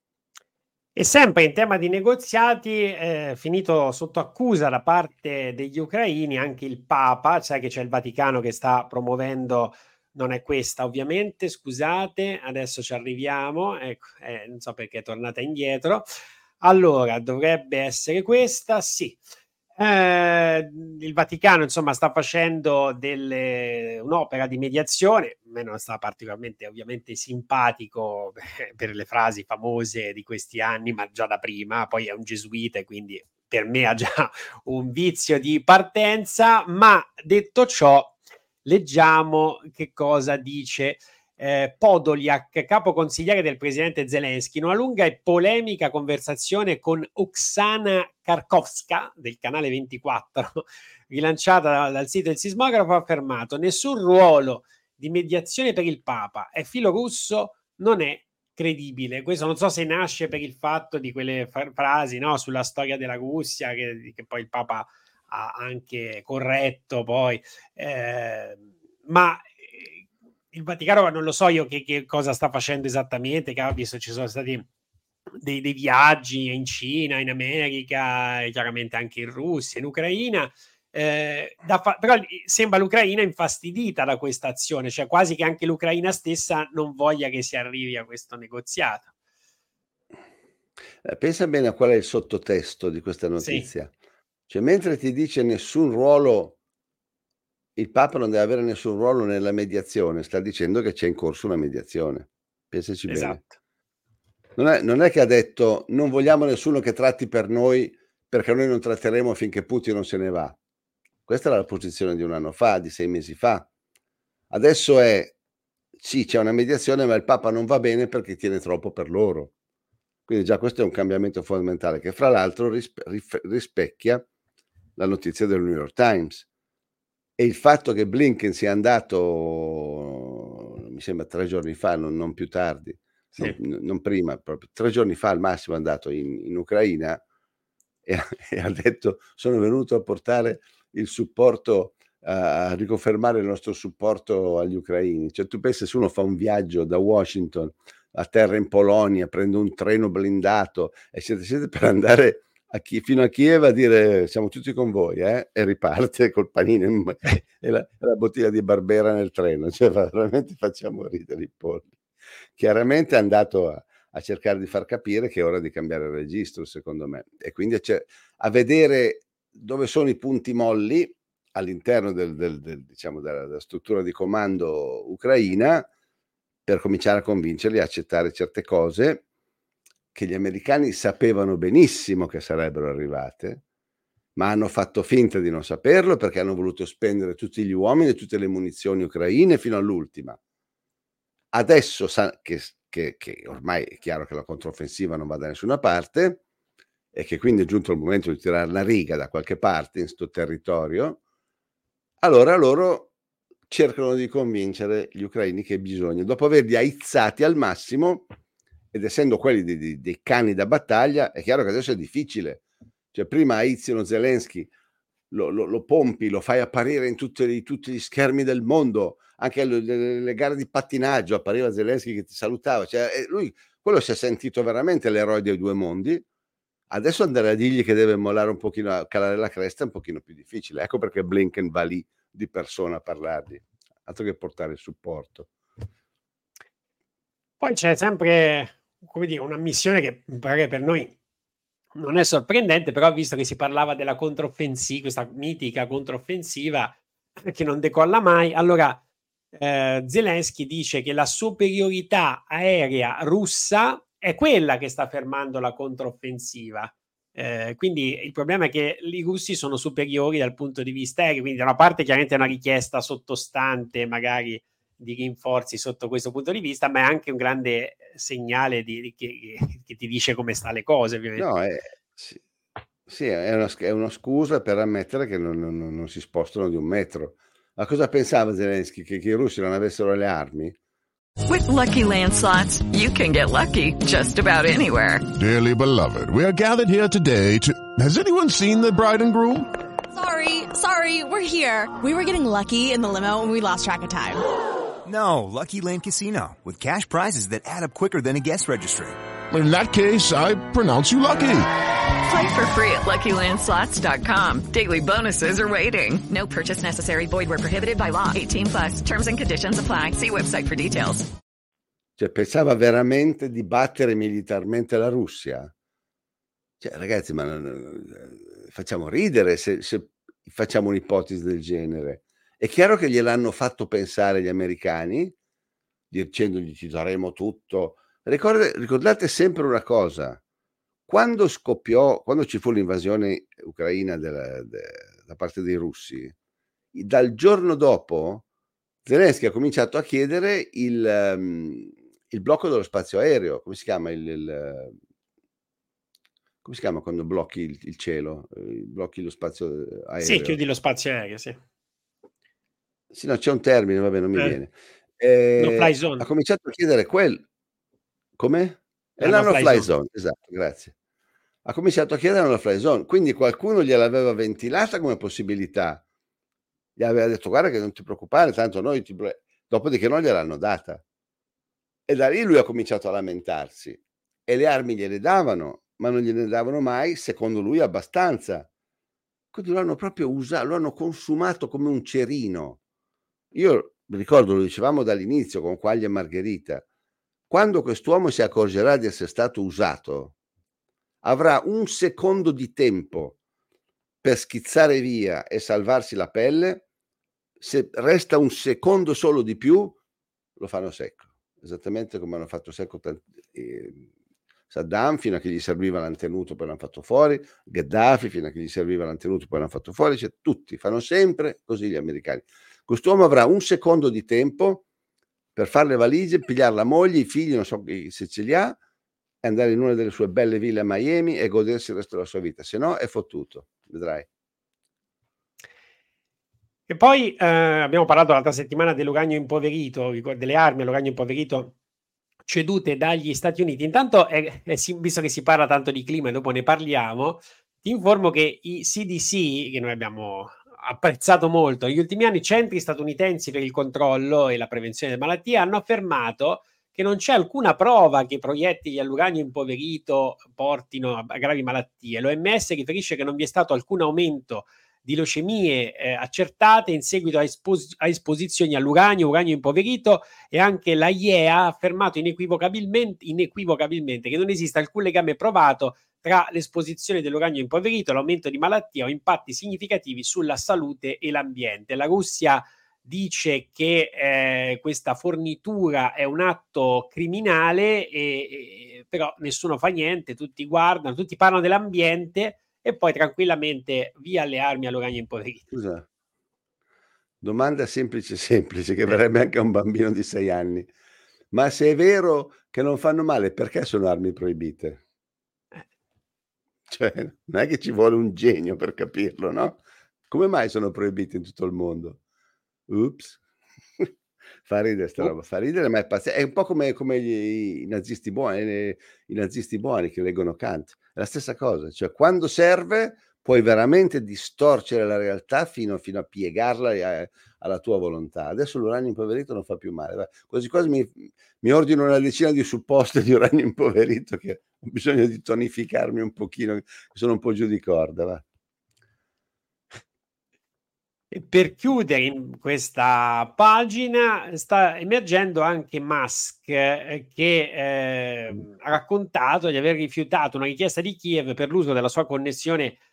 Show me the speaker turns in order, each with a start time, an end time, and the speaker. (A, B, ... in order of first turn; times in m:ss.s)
0:01.0-0:16.1 A
0:16.6-0:19.2 A
0:19.8-1:14.6 A
1:15.4-1:29.1 A
1:31.0-1:33.9 B
1:33.4-1:33.7 A
1:34.5-1:36.6 B
1:37.8-1:43.4 B
1:43.1-1:43.6 A
1:44.6-1:50.6 B
1:51.3-1:53.7 B
1:54.5-1:55.4 B
1:56.0-1:59.5 B
2:00.3-2:04.2 B
2:05.0-2:06.5 B
2:07.4-2:17.2 B
2:18.1-2:41.9 B
2:42.6-2:55.9 B
2:56.7-2:59.2 B
3:00.1-3:03.6 B
3:04.4-3:10.4 B
3:11.5-3:16.4 B
3:17.1-3:21.2 B
3:22.2-3:23.1 B
3:23.7-3:28.3 B
3:28.9-3:32.6 B
3:33.1-3:34.7 B
3:35.3-3:46.2 B
3:46.9-3:55.5 B
3:57.6-4:01.1 A
4:02.0-4:09.0 A
4:09.5-4:31.5 A
4:31.4-4:32.4 B
4:33.1-4:40.8 B
4:41.5-4:45.3 C
4:45.4-4:49.7 D
4:50.1-4:54.4 E
4:55.1-4:59.2 F
4:59.5-5:01.7 D
5:02.2-5:11.3 C
5:12.2-5:15.7 B
5:16.8-5:25.3 B
5:26.1-5:30.4 B
5:31.1-5:36.3 B
5:36.9-5:38.4 B
5:39.0-5:45.0 B
5:46.6-5:50.6 B
5:50.2-5:51.6 A
5:53.1-5:57.4 B
5:55.6-5:56.3 A
5:58.4-6:00.9 B
5:59.2-5:59.9 A
6:01.6-6:06.0 B
6:07.0-6:11.0 B
6:12.1-6:18.7 B
6:19.5-6:22.8 B
6:23.5-6:26.8 B
6:27.5-6:30.4 B
6:31.2-6:33.4 B
6:34.2-6:36.8 B
6:37.6-6:40.0 B
6:40.6-6:44.1 B
6:44.7-6:54.8 B
6:55.6-6:58.8 B
6:59.4-7:04.3 B
7:06.9-7:11.7 A
7:12.5-8:05.7 A
8:05.7-8:06.1 B
8:07.4-8:10.9 B
8:11.5-8:15.0 B
8:16.9-8:22.2 B
8:22.9-8:23.4 B
8:24.6-8:48.4 B
8:51.3-9:03.0 A